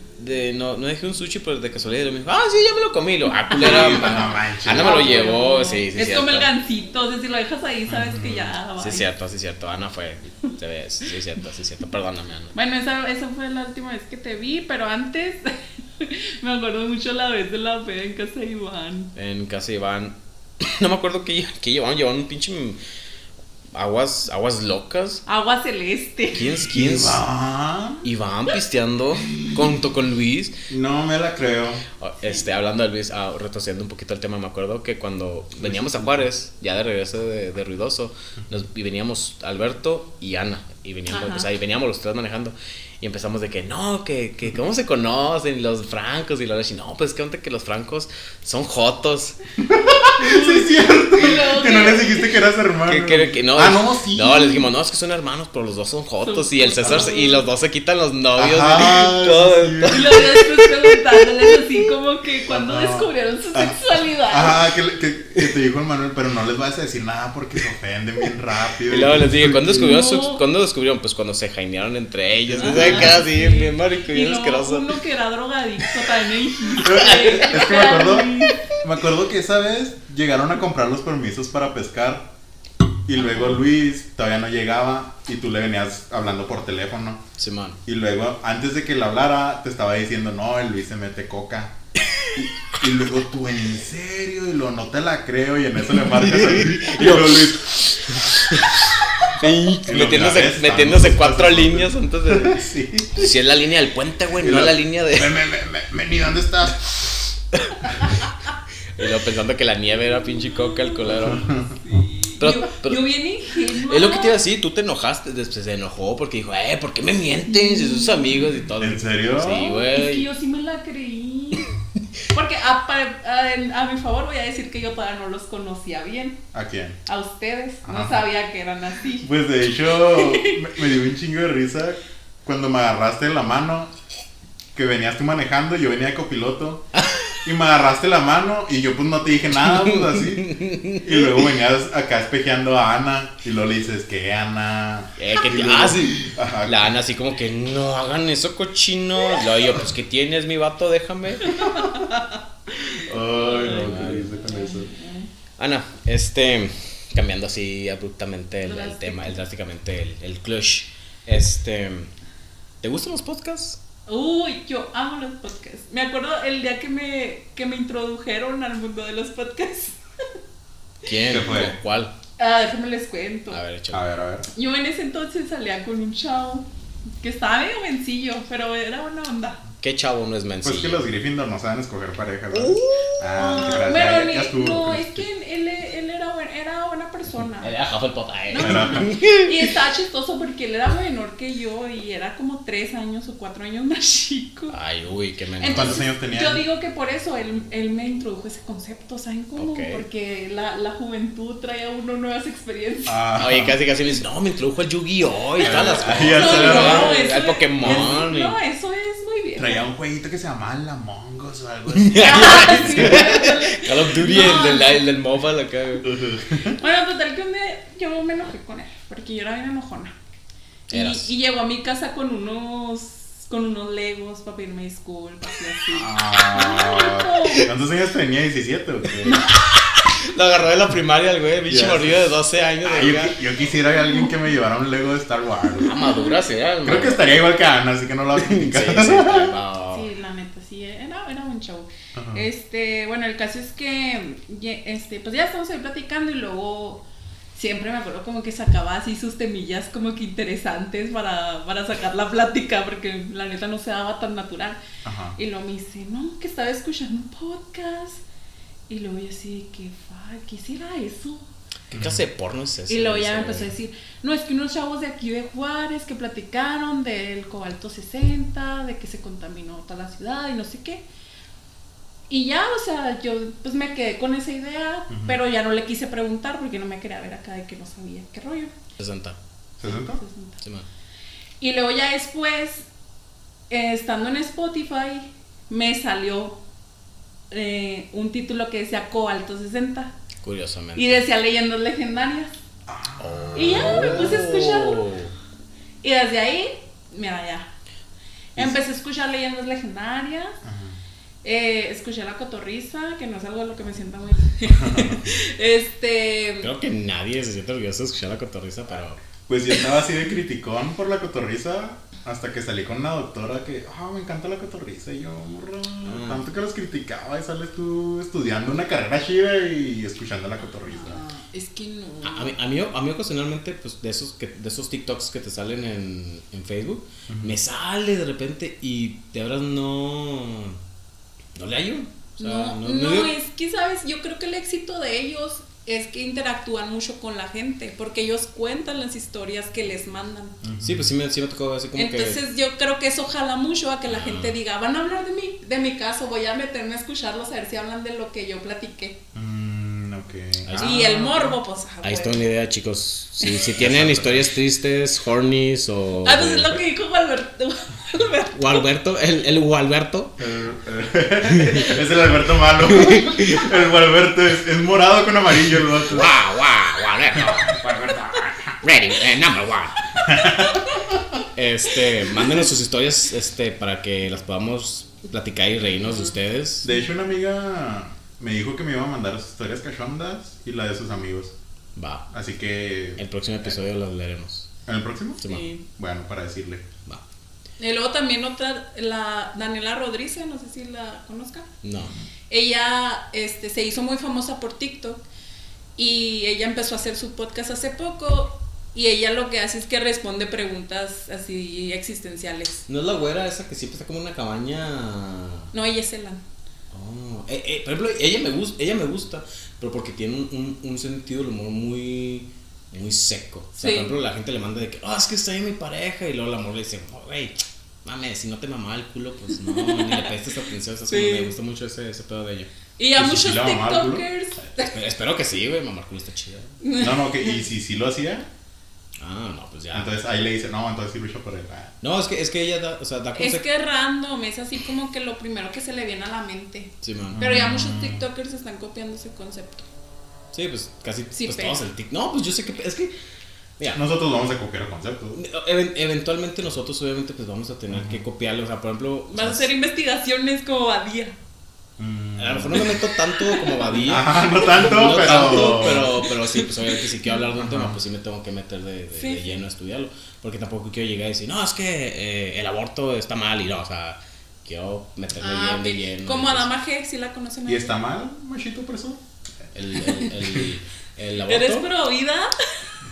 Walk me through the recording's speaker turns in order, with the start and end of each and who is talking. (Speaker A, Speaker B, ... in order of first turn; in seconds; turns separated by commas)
Speaker A: 0.2-6.5, Speaker B: 3.5-9.1, Speaker C: 3.5-5.3, Speaker C: 7.9-8.5, Speaker A: 8.8-12.5, Speaker B: 12.5-19.1, Speaker A: 19.1-22.8, Speaker A: 23.7-25.2, Speaker B: 25.2-26.4, Speaker A: 26.3-27.2, Speaker C: 26.7-28.1, Speaker A: 28.0-30.5, Speaker C: 30.7-31.8, Speaker A: 32.0-49.4, Speaker C: 35.6-36.2, Speaker B: 41.1-41.5, Speaker C: 49.6-54.7, Speaker B: 50.0-52.3, Speaker A: 52.9-61.7, Speaker B: 56.2-57.4, Speaker C: 56.8-57.1, Speaker C: 58.3-60.2, Speaker B: 59.9-64.6, Speaker C: 62.5-63.8, Speaker C: 64.3-69.9, Speaker A: 68.9-75.0, Speaker B: 69.7-70.4, Speaker C: 72.5-73.2, Speaker B: 72.6-78.7, Speaker C: 76.8-82.3, Speaker A: 76.9-77.4, Speaker C: 83.0-87.2, Speaker A: 87.4-87.8, Speaker C: 87.8-91.7, Speaker A: 92.2-92.5, Speaker C: 92.3-98.3, Speaker A: 96.1-105.4, Speaker C: 99.8-103.3, Speaker C: 104.4-107.1, Speaker B: 107.9-108.2, Speaker A: 109.0-111.5, Speaker C: 111.0-111.8, Speaker B: 111.3-114.4, Speaker A: 112.4-113.1, Speaker A: 113.8-120.3, Speaker C: 118.8-119.7, Speaker B: 119.5-121.7, Speaker B: 122.3-126.4, Speaker C: 126.5-127.0, Speaker B: 127.0-129.3, Speaker C: 127.8-128.2, Speaker C: 129.2-133.9, Speaker B: 129.9-130.7, Speaker C: 134.7-136.8, Speaker A: 136.9-137.3, Speaker C: 137.4-146.9, Speaker A: 139.6-141.5, Speaker A: 145.2-151.7, Speaker B: 151.4-152.4, Speaker C: 152.7-154.9, Speaker B: 153.3-155.3, Speaker A: 153.6-154.3, Speaker A: 155.6-162.1, Speaker B: 158.6-159.4, Speaker A: 162.8-163.8, Speaker B: 164.1-170.0, Speaker A: 171.0-172.1, Speaker C: 171.3-171.8, Speaker B: 172.4-173.6, Speaker A: 173.5-174.0, Speaker C: 173.9-174.5, Speaker B: 174.5-176.7, Speaker B: 177.2-179.6, Speaker A: 179.8-181.0, Speaker C: 180.6-185.2, Speaker A: 182.5-183.2, Speaker B: 183.3-187.7, Speaker A: 187.6-189.7, Speaker B: 188.5-194.8, Speaker C: 188.6-189.1, Speaker A: 194.7-196.0, Speaker B: 195.6-203.2, Speaker C: 195.7-196.6, Speaker A: 199.6-200.0, Speaker C: 203.1-203.8, Speaker A: 203.4-208.6, Speaker C: 205.6-207.2, Speaker B: 206.2-209.8, Speaker C: 207.8-208.2, Speaker C: 209.6-213.4, Speaker A: 211.9-216.1, Speaker B: 212.2-215.0, Speaker C: 216.0-216.8, Speaker B: 216.8-220.1, Speaker A: 220.9-221.3, Speaker B: 220.9-227.7, Speaker C: 225.9-229.5, Speaker B: 229.2-229.8, Speaker A: 229.5-233.4, Speaker C: 231.7-235.9, Speaker B: 233.9-234.3, Speaker B: 235.8-236.3, Speaker A: 235.8-237.3, Speaker C: 236.8-239.6, Speaker A: 238.3-240.1, Speaker B: 239.9-247.0, Speaker C: 242.1-242.4, Speaker B: 247.5-254.8, Speaker C: 255.0-255.3, Speaker B: 255.3-258.2, Speaker B: 258.9-261.5, Speaker C: 261.9-262.2, Speaker A: 261.9-263.7, Speaker B: 262.9-271.0, Speaker B: 272.3-278.7, Speaker C: 275.1-275.4, Speaker A: 279.0-279.4, Speaker C: 279.8-280.2, Speaker B: 279.9-280.6, Speaker A: 280.6-280.9, Speaker B: 281.6-282.9, Speaker B: 283.7-286.6, Speaker B: 287.5-290.1, Speaker A: 290.4-291.2, Speaker B: 290.9-292.5, Speaker C: 292.9-294.4, Speaker A: 293.2-295.3, Speaker B: 293.5-295.1, Speaker B: 296.0-297.7, Speaker B: 298.6-300.6, Speaker C: 300.6-301.0, Speaker B: 301.4-306.7, Speaker C: 304.7-305.4, Speaker A: 306.6-309.2, Speaker C: 309.5-321.2, Speaker A: 316.0-316.4, Speaker B: 320.9-322.5, Speaker A: 322.2-330.8, Speaker C: 327.3-327.6, Speaker A: 331.5-333.3, Speaker B: 332.4-340.6, Speaker C: 340.6-341.1, Speaker A: 340.8-342.4, Speaker B: 341.9-349.2, Speaker A: 344.1-344.5, Speaker C: 349.3-351.0, Speaker A: 350.7-356.8, Speaker B: 350.8-352.4, Speaker C: 353.7-354.5, Speaker B: 356.2-358.9, Speaker A: 358.5-360.4, Speaker C: 360.4-366.3, Speaker A: 361.5-361.9, Speaker A: 362.8-363.7, Speaker A: 366.0-370.1, Speaker C: 367.4-367.9, Speaker C: 370.2-371.0, Speaker A: 371.5-376.9, Speaker C: 376.8-381.5, Speaker A: 381.9-382.2, Speaker C: 382.3-383.8, Speaker A: 383.2-384.7, Speaker C: 384.9-385.4, Speaker A: 385.4-385.7, Speaker B: 385.4-385.8, Speaker C: 385.9-386.9, Speaker B: 387.8-391.7, Speaker A: 391.8-392.1, Speaker B: 392.5-395.2, Speaker B: 396.0-402.8, Speaker A: 402.9-405.7, Speaker B: 405.7-406.4, Speaker A: 406.9-422.7, Speaker B: 413.8-414.2, Speaker B: 419.6-420.3, Speaker B: 421.1-421.5, Speaker B: 423.0-425.0, Speaker C: 423.1-424.2, Speaker A: 424.9-426.8, Speaker B: 426.8-427.6, Speaker C: 427.0-428.5, Speaker A: 429.2-430.1, Speaker C: 429.9-431.9, Speaker A: 432.0-433.6, Speaker B: 433.3-439.9, Speaker A: 437.0-437.5, Speaker C: 437.3-438.2, Speaker A: 440.5-443.1, Speaker B: 441.3-441.8, Speaker C: 443.9-445.4, Speaker A: 445.3-449.7, Speaker C: 447.9-448.2, Speaker B: 449.3-451.4, Speaker C: 452.0-453.0, Speaker A: 452.4-466.7, Speaker B: 453.1-457.4, Speaker C: 454.0-456.2, Speaker C: 457.6-458.0, Speaker B: 459.1-459.6, Speaker B: 465.4-467.9, Speaker C: 467.7-469.2, Speaker A: 469.7-471.9, Speaker B: 470.0-470.3, Speaker B: 471.4-472.5